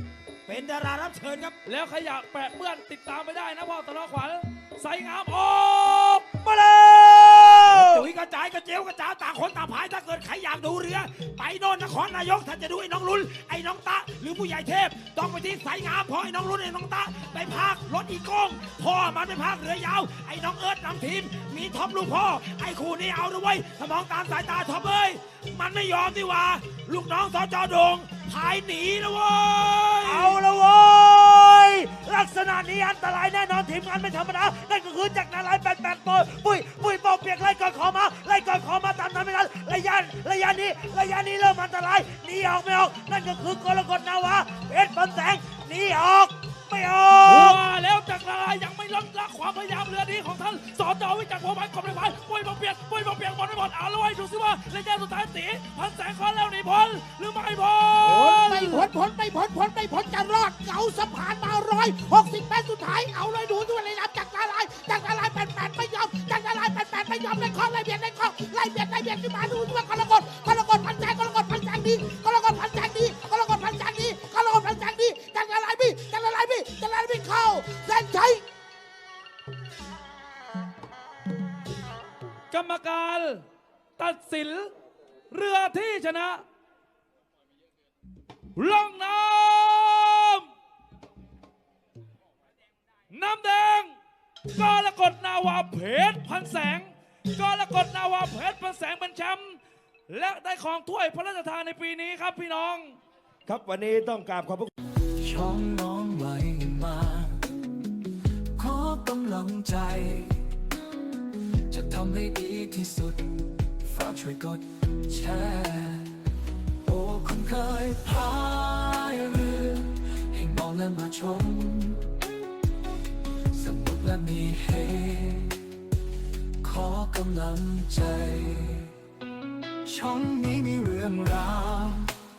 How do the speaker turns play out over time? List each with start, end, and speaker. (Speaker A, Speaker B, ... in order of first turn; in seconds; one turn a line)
Speaker A: 0.5-1.6
Speaker B: 1.6-6.2
Speaker C: 6.4-8.1
Speaker A: 7.7-30.4
Speaker C: 30.0-47.6
Speaker B: 47.2-58.9
Speaker D: 58.0-78.4
Speaker B: 82.5-83.4
Speaker B: 84.0-84.7
Speaker B: 85.3-86.4
Speaker B: 88.5-90.5
Speaker B: 93.1-93.9
Speaker B: 94.5-103.0
Speaker A: 103.5-104.7
Speaker E: 105.2-107.5
Speaker E: 108.5-110.4
Speaker E: 111.5-116.3
Speaker E: 116.8-122.0
Speaker E: 123.5-125.6
Speaker E: 126.6-128.9
Speaker E: 129.8-132.1